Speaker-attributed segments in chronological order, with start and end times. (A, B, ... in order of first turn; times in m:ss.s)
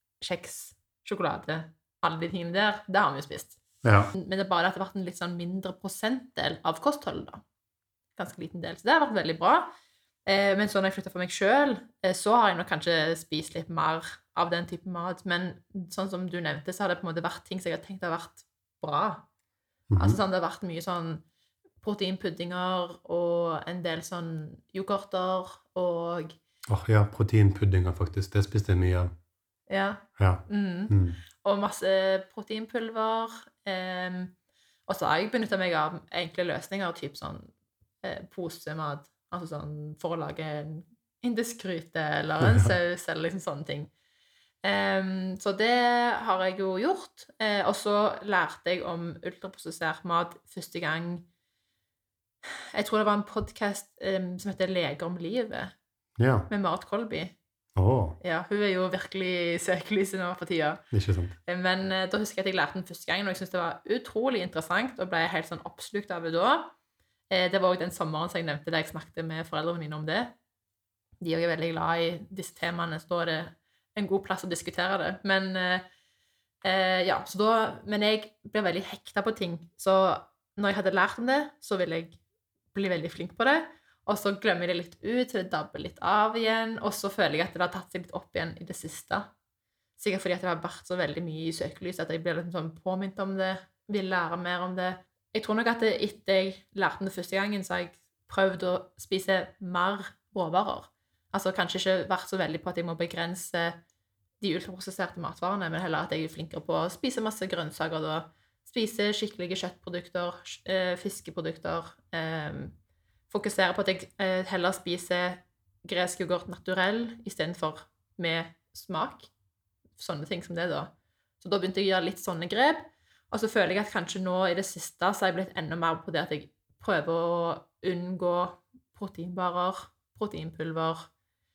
0:00.2-0:03.6 A
0:03.8-0:04.1 B
0:04.1-0:07.4 A
0:08.2-0:09.7 A
0:10.2-0:19.2 A
0:19.9-0:20.2 B
0:20.0-0:21.2 A
0:21.8-0:26.4 A
0:26.7-0:29.1 B
0:29.7-0:34.3 A
0:30.2-0:31.2 B
0:34.9-0:37.5 A
0:38.0-0:43.9 A
0:42.4-0:42.7 B
0:44.6-0:51.2 A
0:52.7-0:55.7 A
0:56.2-0:56.5 B
0:56.5-0:57.3 A
0:57.8-0:58.2 B
0:58.2-1:00.8 A
1:00.9-1:01.3 B
1:01.4-1:06.7 A
1:07.3-1:10.3 A
1:11.2-1:15.8 A
1:16.6-1:22.2 A
1:22.7-1:29.3 A
1:30.0-1:43.8 A
1:44.4-1:52.7 A
1:53.3-1:59.3 A
2:00.0-2:11.1 A